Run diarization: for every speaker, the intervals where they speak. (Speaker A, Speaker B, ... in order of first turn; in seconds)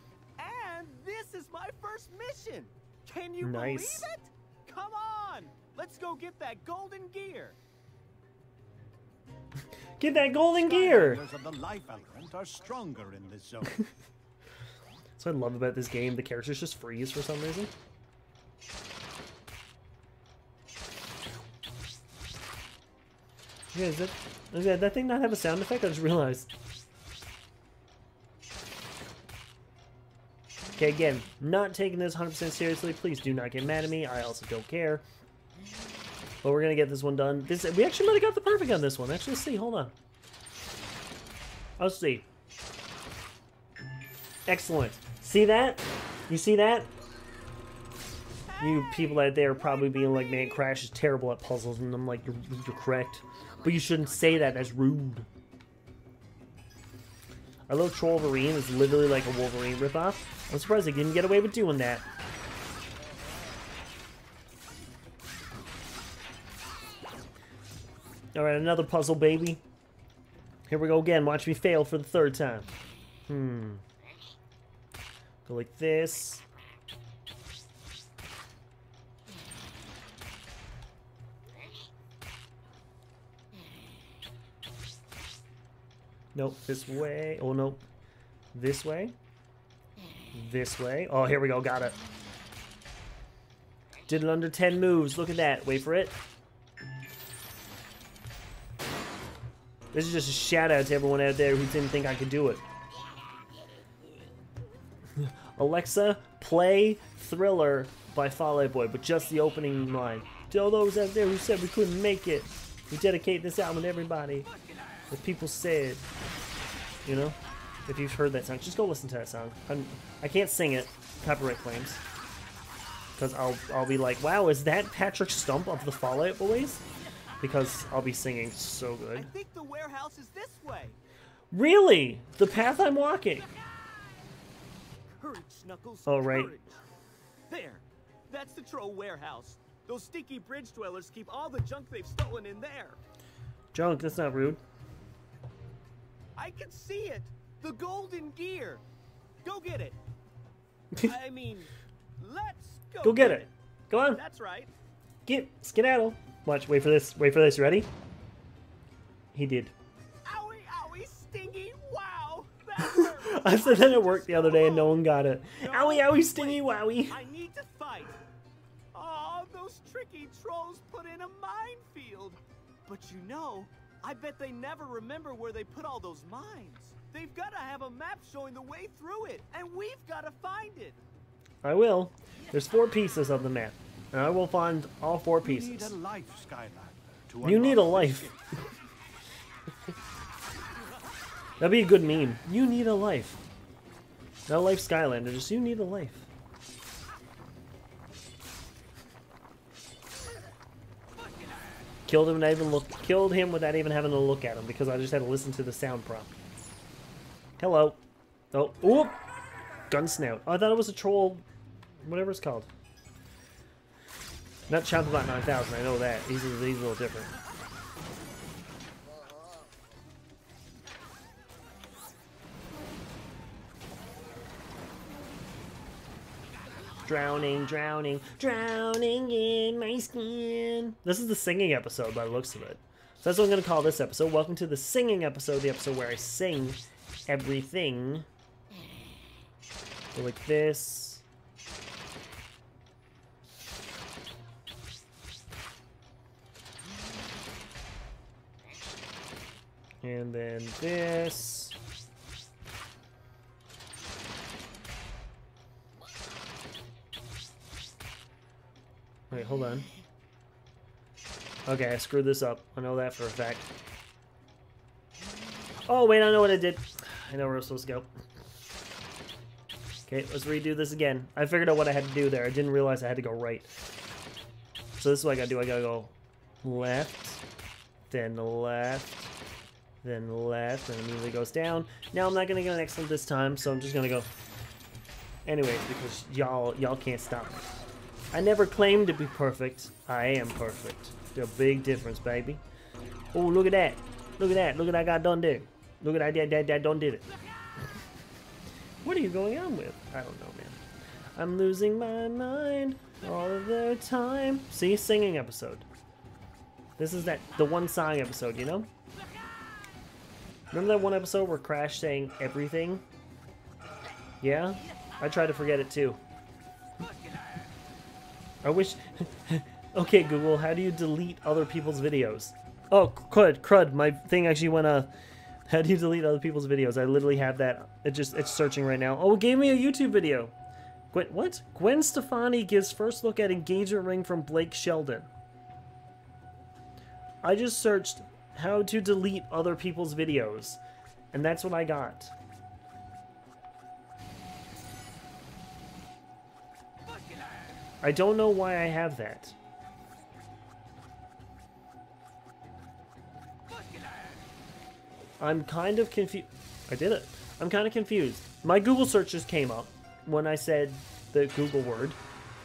Speaker A: 0.4-7.6, 48.5-50.2, 129.2-131.0, 135.1-136.8, 137.5-143.0, 146.4-148.8, 149.4-150.0, 151.0-153.5, 154.1-154.7, 160.2-165.0, 165.6-168.2, 168.9-181.0
Speaker B: 3.4-4.1, 10.0-11.2, 15.2-17.7, 23.7-26.5, 30.8-35.0, 36.4-39.9, 41.8-42.3, 44.5-46.9, 48.6-55.3, 57.7-62.0, 68.3-69.6, 70.7-72.7, 73.3-73.8, 75.5-76.4, 86.3-87.8, 88.5-89.2, 90.3-92.0, 94.1-96.2, 99.9-102.7, 105.2-114.5, 115.1-116.0, 117.0-122.0, 123.2-126.8, 127.4-129.3, 131.5-133.5, 136.1-136.5, 143.7-144.6, 153.0-154.2, 155.3-157.9, 159.3-159.7, 162.8-167.2, 181.6-186.0, 187.4-188.3, 191.6-193.4, 194.5-196.3, 202.1-206.3, 207.6-208.0, 208.5-209.2, 209.9-211.4, 212.0-212.7, 214.7-217.3, 227.0-238.3, 240.1-241.2, 250.0-251.8, 259.3-259.9, 261.7-263.7, 265.9-268.1, 270.1-273.7, 275.0-277.4, 278.1-279.3, 280.0-284.3, 285.4-287.7, 288.3-292.6, 293.3-297.3, 299.0-300.8, 301.4-305.9, 307.0-308.9, 310.7-313.0, 314.4-316.2, 318.6-325.1, 325.7-330.5, 331.1-335.3, 337.4-340.8, 341.3-342.3, 348.0-349.6, 355.4-362.2
Speaker C: 10.6-13.8, 185.4-188.4